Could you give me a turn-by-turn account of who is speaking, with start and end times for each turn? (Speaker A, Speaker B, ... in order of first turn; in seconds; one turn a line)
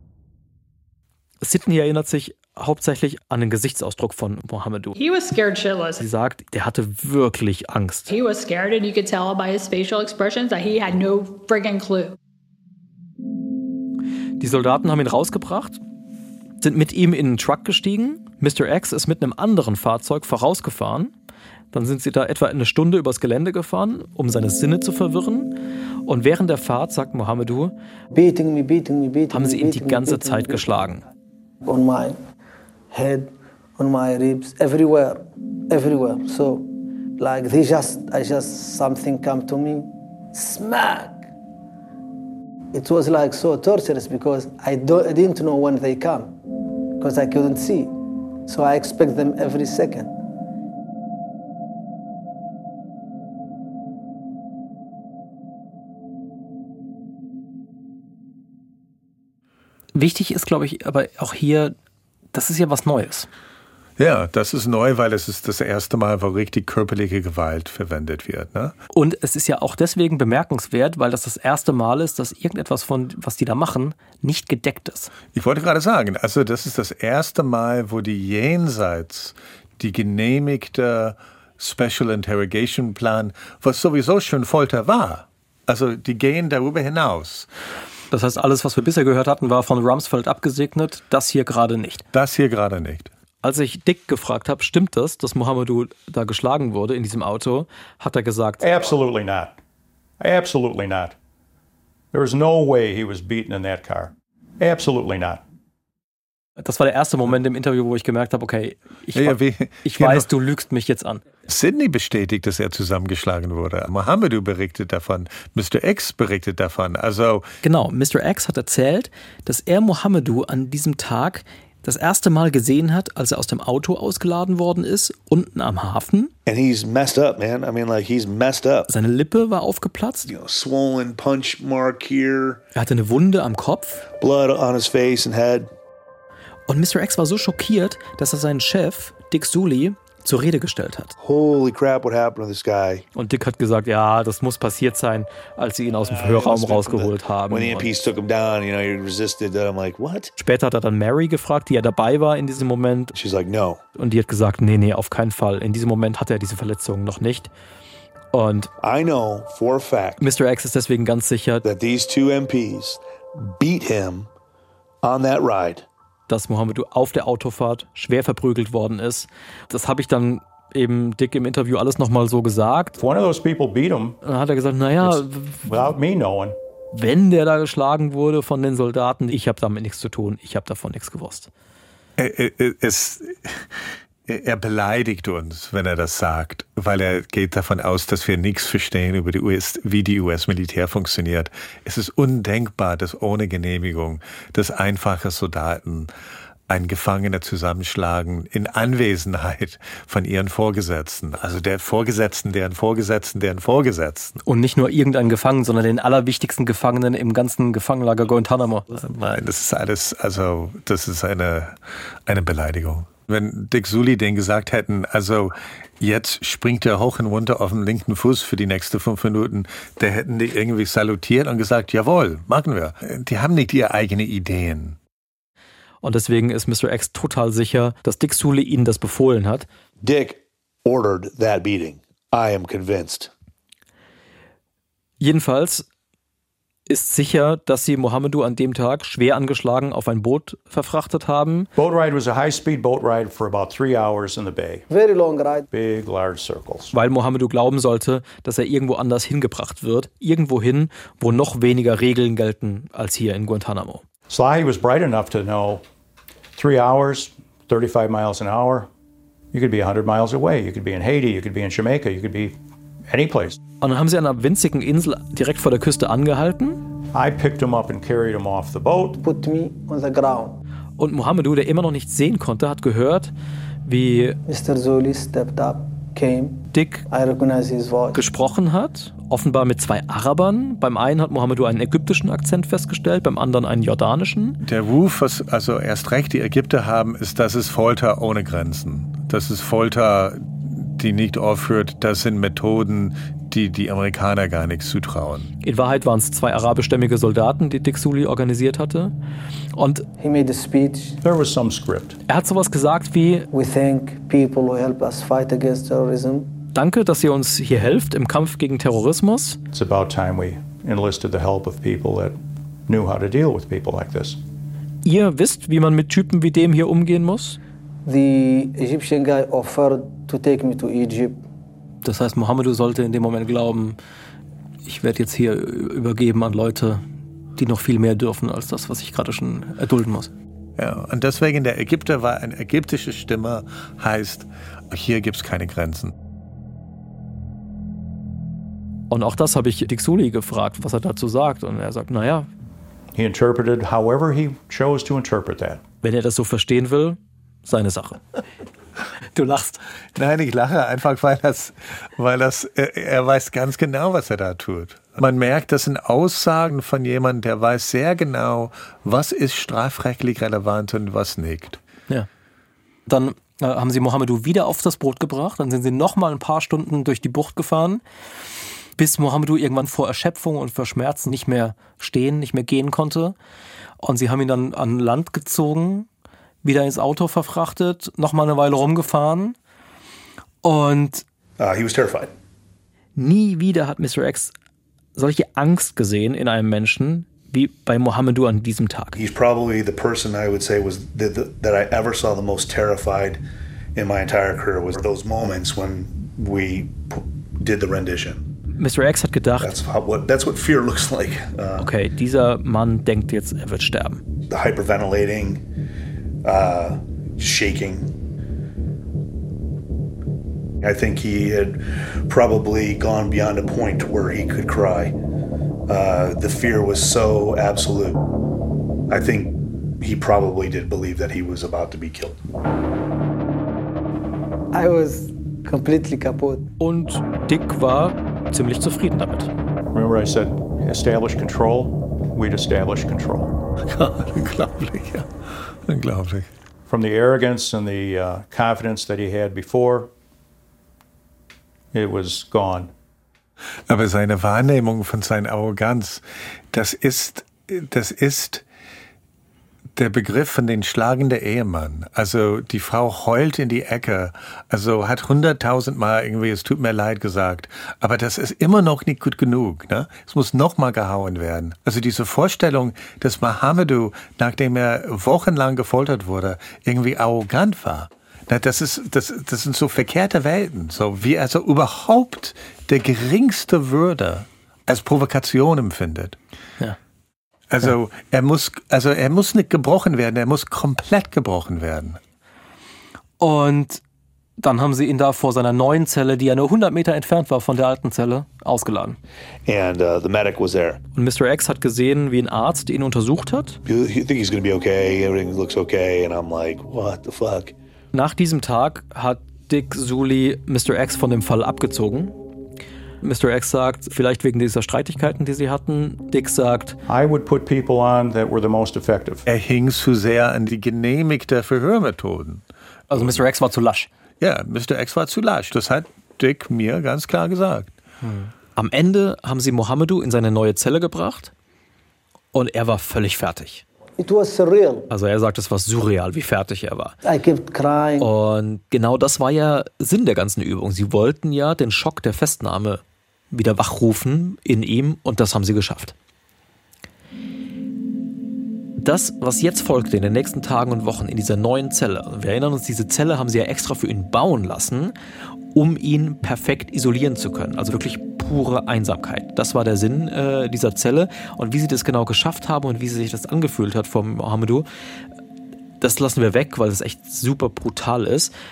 Speaker A: 1.4-5.0
Speaker B: 5.0-6.0
Speaker A: 6.0-8.1
Speaker B: 8.1-12.2
Speaker A: 14.4-15.8
Speaker A: 16.6-21.1
Speaker A: 21.7-25.5
Speaker A: 26.1-27.7
Speaker C: 28.1-30.7
Speaker A: 29.3-31.0
Speaker C: 31.6-32.2
Speaker C: 32.9-41.3
Speaker C: 42.7-46.4
Speaker C: 47.0-50.1
Speaker A: 59.9-61.7
Speaker A: 62.3-63.3
Speaker D: 64.0-68.8
Speaker A: 68.9-75.1
Speaker D: 75.3-87.5
Speaker A: 88.1-92.0
Speaker D: 92.1-93.1
Speaker A: 93.4-98.9
Speaker E: 98.6-99.6
Speaker E: 100.2-101.2
Speaker E: 102.1-105.4
Speaker A: 106.6-111.2
Speaker D: 109.1-110.3
Speaker D: 111.5-117.5
Speaker A: 117.6-126.3
Speaker F: 126.5-128.9
Speaker A: 128.9-130.3
Speaker F: 130.3-132.6
Speaker A: 132.7-134.1
Speaker F: 134.2-135.7
Speaker A: 136.7-141.2
Speaker F: 141.2-143.1
Speaker A: 143.2-148.0
Speaker F: 145.9-150.3
Speaker A: 150.4-153.1
Speaker F: 153.1-153.8
Speaker A: 154.0-157.5
Speaker A: 158.3-158.7
Speaker F: 158.8-160.2
Speaker A: 160.2-161.6
Speaker F: 161.6-164.3
Speaker F: 165.0-165.9
Speaker A: 166.3-173.0
Speaker E: 173.0-174.2
Speaker A: 174.2-175.7
Speaker E: 175.0-176.6
Speaker A: 176.9-181.5
Speaker D: 182.2-196.1
Speaker D: 196.7-204.4
Speaker A: 204.4-208.8
Speaker D: 208.9-225.0
Speaker A: 226.0-229.7
Speaker F: 230.0-233.3
Speaker A: 235.2-235.9
Speaker A: 236.9-241.7
Speaker E: 241.8-244.9
Speaker C: 244.9-245.7
Speaker E: 245.7-246.9
Speaker A: 246.9-254.0
Speaker E: 254.3-255.8
Speaker E: 256.6-258.9
Speaker E: 259.5-262.6
Speaker E: 263.1-263.6
Speaker A: 263.8-266.8
Speaker E: 267.1-269.2
Speaker C: 269.2-270.6
Speaker A: 271.0-273.3
Speaker A: 273.9-274.4
Speaker C: 274.5-278.2
Speaker A: 276.7-277.1
Speaker A: 278.1-284.6
Speaker D: 284.6-295.5
Speaker A: 295.6-299.1
Speaker A: 299.8-300.1
Speaker C: 300.2-301.2
Speaker E: 301.2-302.2
Speaker A: 302.3-303.5
Speaker C: 303.5-306.5
Speaker A: 306.7-309.6
Speaker E: 309.7-314.4
Speaker A: 315.1-317.6
Speaker C: 318.1-321.4
Speaker A: 322.0-324.0
Speaker A: 324.9-327.0
Speaker A: 327.6-330.3
Speaker D: 330.8-336.1
Speaker A: 339.1-342.5
Speaker E: 343.1-345.8
Speaker A: 346.0-348.2
Speaker A: 349.4-349.8
Speaker D: 350.1-361.8
Speaker A: 363.1-368.0
Speaker A: 369.0-373.4
Speaker A: 374.0-376.1
Speaker A: 376.6-379.6
Speaker A: 380.6-381.2
Speaker F: 381.6-382.3
Speaker A: 383.2-384.5
Speaker A: 385.2-389.2
Speaker F: 389.1-393.4
Speaker F: 393.9-398.4
Speaker A: 398.8-399.7
Speaker F: 399.6-401.9
Speaker A: 401.8-404.2
Speaker F: 404.5-405.6
Speaker F: 406.4-408.1
Speaker F: 410.8-415.2
Speaker F: 415.9-418.2
Speaker F: 419.1-422.4
Speaker C: 424.7-426.7
Speaker A: 426.8-429.5
Speaker E: 429.9-433.6
Speaker D: 433.9-436.5
Speaker E: 436.9-440.1
Speaker E: 441.9-442.9
Speaker D: 443.9-448.6
Speaker D: 450.0-476.4
Speaker D: 477.7-482.2
Speaker A: 483.4-484.0
Speaker A: 484.6-489.2
Speaker F: 489.7-491.0
Speaker A: 491.1-493.8
Speaker F: 493.9-497.7
Speaker A: 498.1-502.4
Speaker A: 503.2-507.0
Speaker E: 507.1-509.4
Speaker D: 509.5-513.4
Speaker A: 513.1-514.1
Speaker D: 514.4-518.0
Speaker A: 518.2-521.5
Speaker A: 522.5-523.8
Speaker C: 524.2-525.1
Speaker A: 525.1-527.2
Speaker C: 527.2-528.3
Speaker A: 528.2-536.1
Speaker A: 539.0-545.1
Speaker A: 545.7-554.9
Speaker A: 556.0-558.5